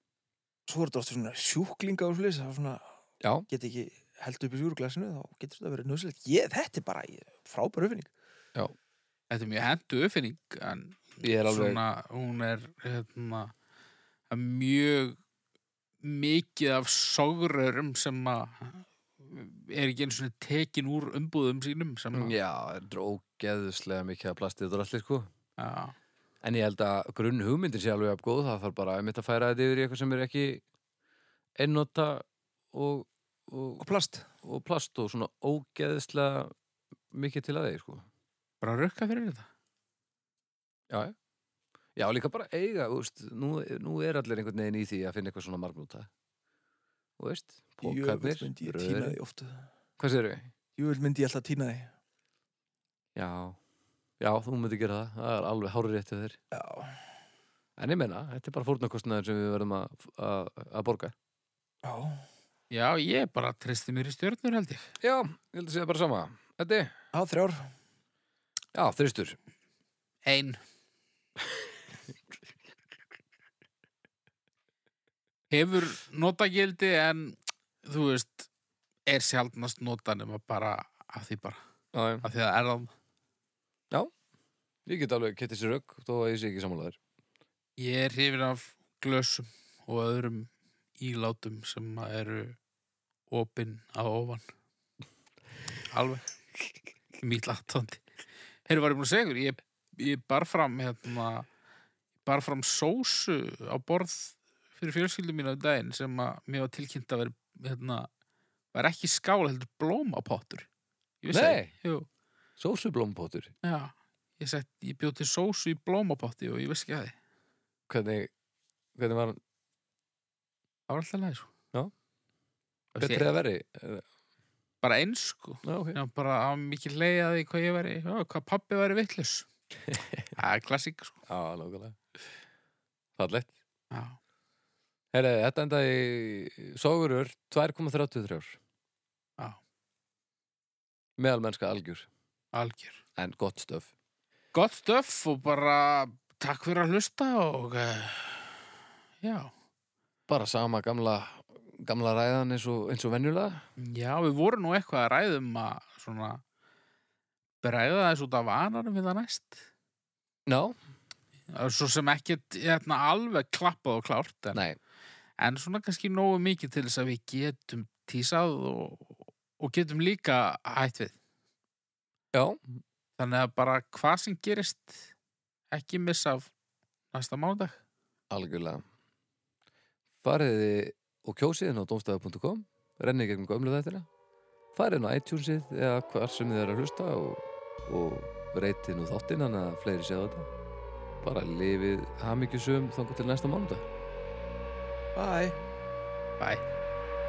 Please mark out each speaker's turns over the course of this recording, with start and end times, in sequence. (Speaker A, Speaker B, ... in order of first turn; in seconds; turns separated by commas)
Speaker A: 0.7-2.9, Speaker B: 3.2-3.5, Speaker A: 3.5-8.1, Speaker C: 9.3-13.5, Speaker B: 11.2-11.8, Speaker C: 14.3-15.2, Speaker C: 16.0-22.4, Speaker B: 22.1-25.3, Speaker C: 25.6-26.0, Speaker B: 26.4-30.6, Speaker B: 31.6-33.8, Speaker A: 33.8-34.3, Speaker B: 34.4-36.5, Speaker B: 37.1-38.1, Speaker C: 38.6-39.5, Speaker B: 40.9-41.1, Speaker B: 42.0-46.1, Speaker B: 47.2-49.2, Speaker A: 47.8-49.7, Speaker B: 50.0-50.5, Speaker A: 50.8-51.9, Speaker B: 53.2-53.6, Speaker B: 54.2-56.4, Speaker A: 56.5-57.0, Speaker B: 57.8-61.1, Speaker A: 61.8-62.3, Speaker C: 62.7-64.9, Speaker B: 65.0-66.9, Speaker A: 67.1-67.7, Speaker B: 68.7-69.4, Speaker C: 70.2-70.6, Speaker C: 75.5-78.5, Speaker C: 79.1-81.6, Speaker B: 81.9-82.3, Speaker C: 82.2-82.9, Speaker B: 84.9-87.0, Speaker C: 87.8-92.6, Speaker C: 93.3-94.4, Speaker C: 95.9-96.3, Speaker C: 97.2-98.0, Speaker C: 98.7-101.5, Speaker C: 102.2-108.1, Speaker C: 108.7-110.7, Speaker C: 111.2-112.1, Speaker B: 111.3-111.7, Speaker B: 112.6-113.5, Speaker C: 113.6-117.2, Speaker B: 117.9-118.3, Speaker B: 119.0-119.4, Speaker C: 120.9-121.5, Speaker C: 122.9-123.3, Speaker B: 123.0-124.0, Speaker C: 124.8-129.5, Speaker B: 125.6-126.0, Speaker B: 129.9-130.3, Speaker C: 130.3-131.2, Speaker B: 131.3-132.0, Speaker B: 133.2-133.5, Speaker C: 133.9-134.2, Speaker B: 135.1-138.6, Speaker B: 141.2-142.1, Speaker C: 142.5-143.0, Speaker B: 143.2-143.9, Speaker C: 144.5-148.7, Speaker C: 149.2-149.5, Speaker B: 150.3-153.6, Speaker C: 153.8-156.4, Speaker C: 157.6-159.7, Speaker B: 160.5-160.8, Speaker C: 161.5-164.6, Speaker B: 164.5-164.8, Speaker C: 165.4-171.2, Speaker B: 172.3-172.8, Speaker C: 173.2-175.1, Speaker C: 175.7-176.5, Speaker C: 177.1-177.8, Speaker B: 178.3-178.8, Speaker B: 180.2-184.1, Speaker B: 184.7-190.5, Speaker B: 191.2-193.9, Speaker A: 195.2-195.6, Speaker C: 196.4-196.7